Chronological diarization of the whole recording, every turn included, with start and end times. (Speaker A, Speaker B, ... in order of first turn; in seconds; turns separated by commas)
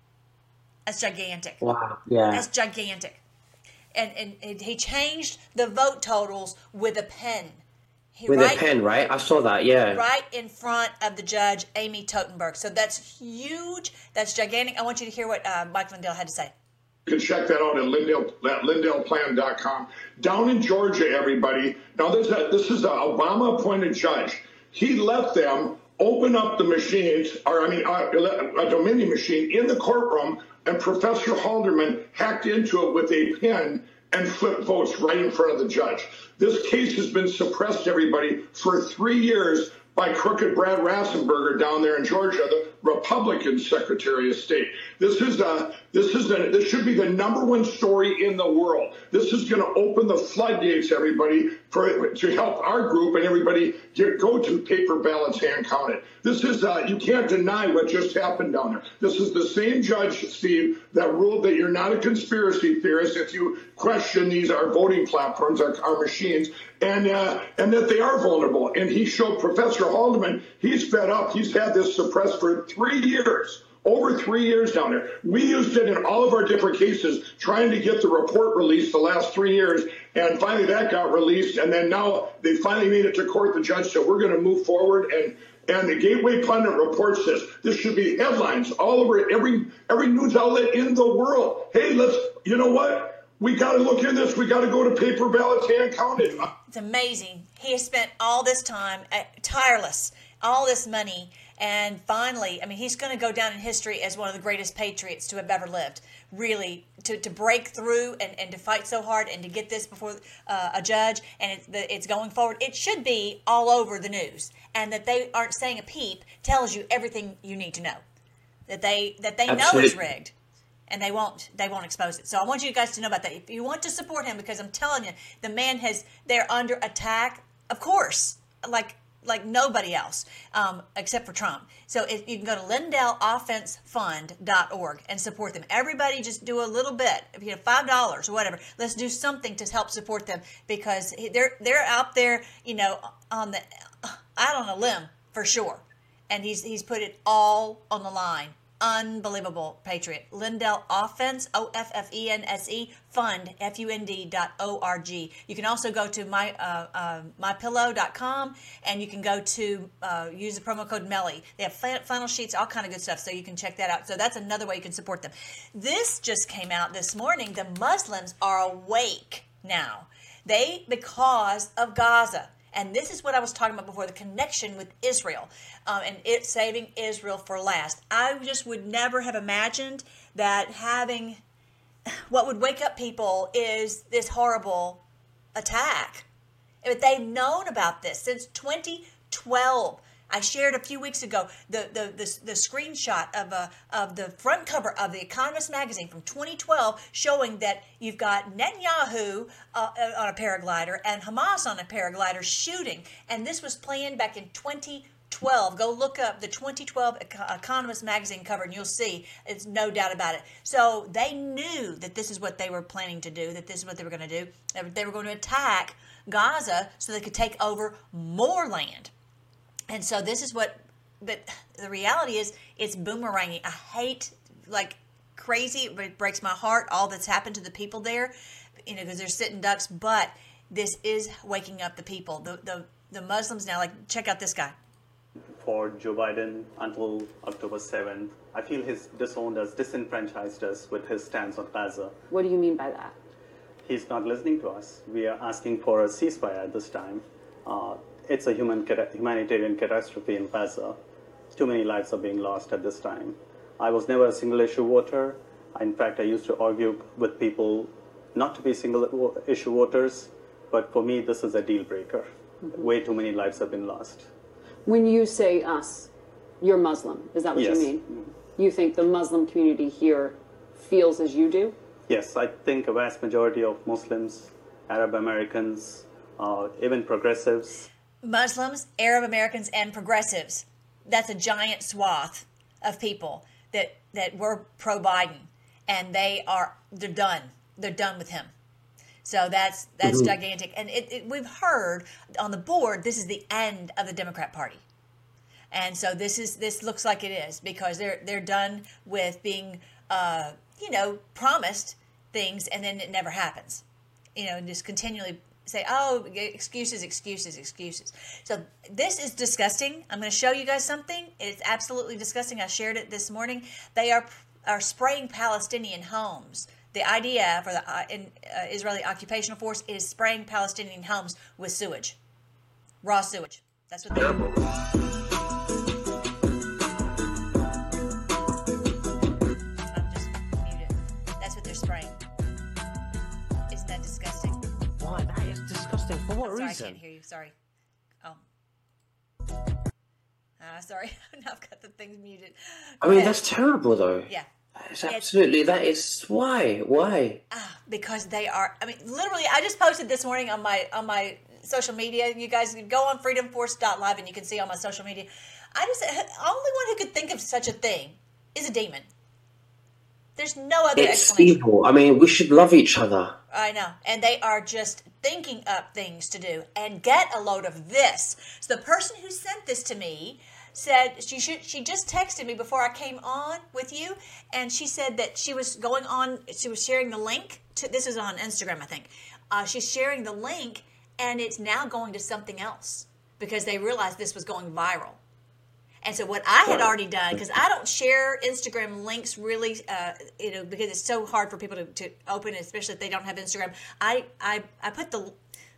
Speaker A: 0.9-1.6, Speaker B: 1.6-2.5, Speaker A: 2.3-3.2, Speaker A: 4.0-7.6, Speaker A: 8.2-8.6, Speaker B: 8.3-10.0, Speaker A: 9.9-16.5, Speaker C: 17.1-96.5, Speaker A: 96.7-118.0, Speaker A: 118.7-120.3, Speaker B: 119.5-119.9, Speaker A: 120.9-181.4, Speaker A: 182.3-185.0, Speaker A: 185.6-186.3, Speaker A: 186.8-219.1, Speaker A: 219.9-228.3, Speaker A: 228.9-234.8, Speaker D: 235.6-242.1, Speaker E: 242.3-243.2, Speaker D: 243.8-251.0, Speaker D: 251.5-264.3, Speaker E: 264.9-266.1, Speaker E: 266.6-271.8, Speaker D: 267.5-268.3, Speaker D: 272.1-277.9, Speaker A: 278.2-288.5, Speaker A: 289.2-294.8, Speaker B: 290.0-290.3, Speaker A: 295.7-303.8, Speaker A: 304.4-322.2, Speaker A: 323.0-324.4, Speaker A: 329.9-332.2, Speaker A: 333.7-334.6, Speaker B: 335.0-337.0, Speaker A: 336.4-337.5, Speaker A: 340.6-343.4, Speaker B: 343.0-344.3, Speaker B: 344.8-347.4, Speaker A: 347.5-359.1, Speaker A: 360.4-361.6, Speaker B: 361.0-363.4, Speaker A: 363.5-385.2, Speaker A: 386.0-395.4